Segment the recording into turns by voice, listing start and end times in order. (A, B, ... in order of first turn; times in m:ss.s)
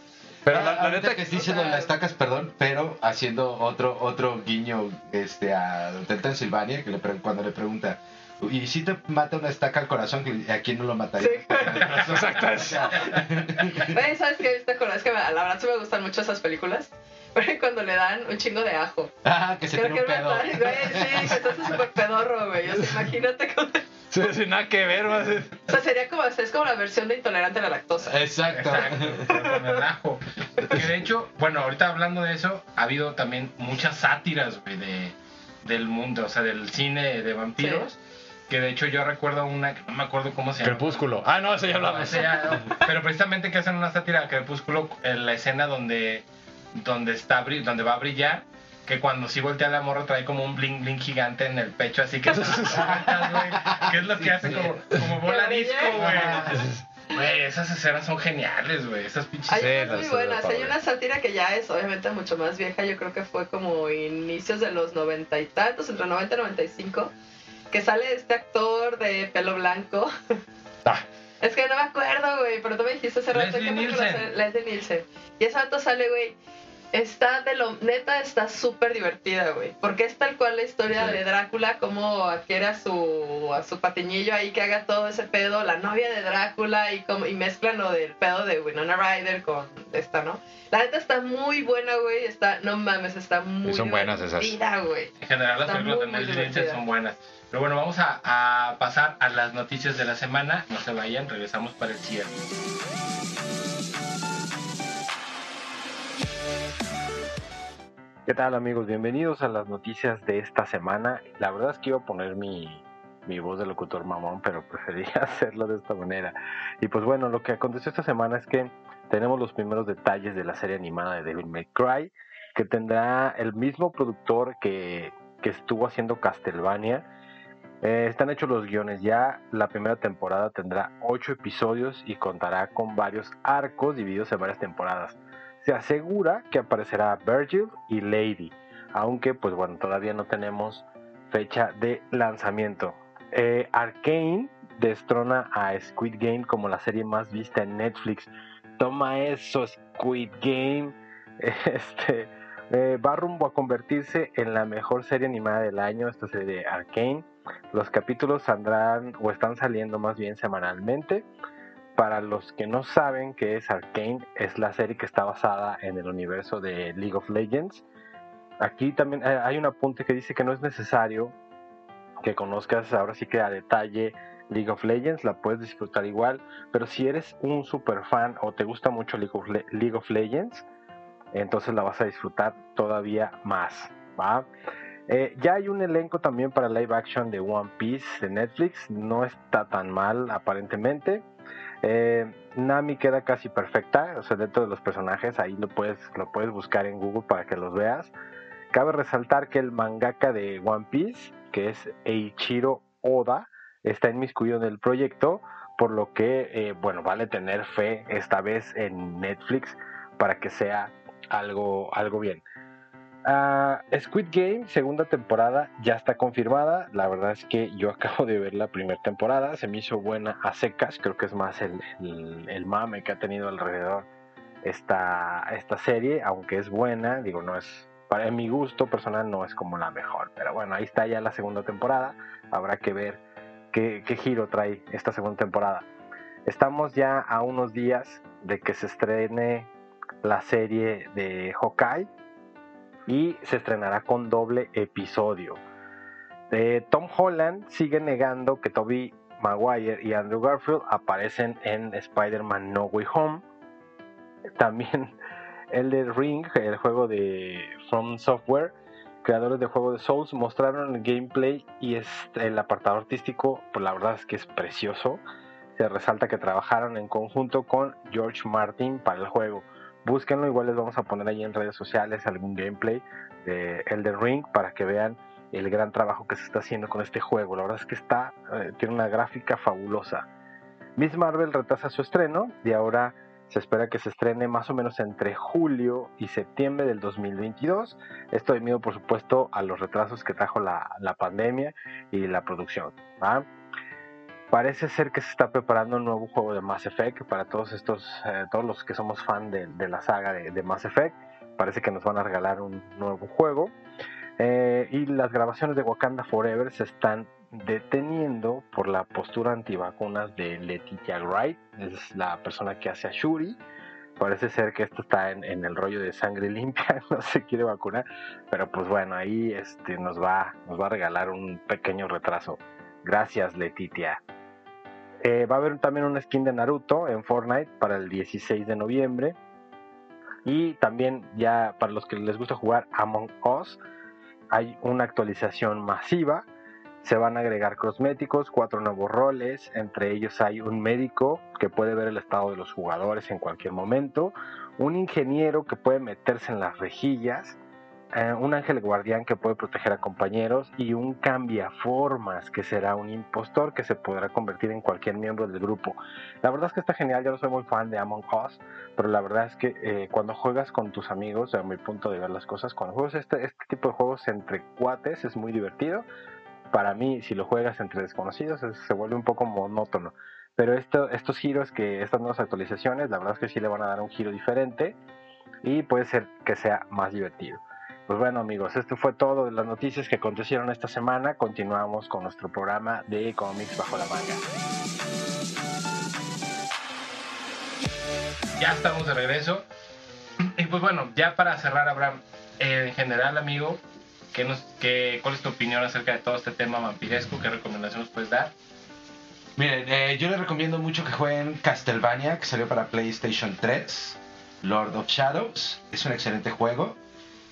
0:00.4-0:01.3 A
0:00.5-0:14.0 B
0:01.3-0:01.9 C
0:11.2-0:12.1 C
0:11.7-0:13.2 A
0:13.7-0:19.1 C
0:19.2-0:21.6 B
0:19.7-0:23.8 C
0:24.1-0:25.6 A
0:25.7-0:28.2 C
0:28.0-0:29.3 B
0:28.5-0:38.0 D
0:29.3-0:29.7 C
0:37.6-0:37.8 C
0:38.5-0:46.2 D
0:40.6-0:42.8 A
0:46.8-1:00.0 D
0:52.3-0:53.0 A
0:52.9-0:54.7 B
0:55.2-0:56.1 C
0:55.9-0:56.6 B
0:56.5-0:56.8 A
0:59.5-1:07.1 C
0:59.6-1:00.8 A
1:07.7-1:10.4 C
1:11.4-1:16.4 C
1:13.3-1:14.3 D
1:16.9-1:35.1 C
1:33.6-1:34.6 A
1:35.2-1:42.4 D
1:35.6-1:36.8 C
1:48.3-2:07.1 E
2:07.8-2:41.3 E
2:42.0-2:47.8 E
2:48.6-2:51.3 E
2:52.2-3:00.6 E
3:01.3-3:04.5 E
3:05.1-3:11.2 E
3:11.8-3:18.1 E
3:18.7-3:32.4 E
3:33.2-3:44.1 E
3:44.6-3:53.2 E
3:53.7-3:55.9 E
3:56.5-3:59.7 E
4:00.2-4:02.1 E
4:03.1-4:05.6 E
4:06.5-4:13.4 E
4:14.6-4:15.1 E
4:15.7-4:18.7 E
4:19.2-4:25.2 E
4:25.8-4:40.3 E
4:41.0-4:53.5 E
4:54.5-5:03.7 E
5:04.4-5:13.6 E
5:14.2-5:24.2 E
5:25.2-5:29.4 E
5:30.4-5:33.8 E
5:34.5-5:36.4 E
5:37.0-5:47.6 E
5:48.1-6:06.1 E
6:06.7-6:15.0 E
6:15.6-6:24.4 E
6:28.6-6:29.7 D
6:30.4-6:33.8 D
6:34.3-6:38.5 D
6:39.6-6:47.0 B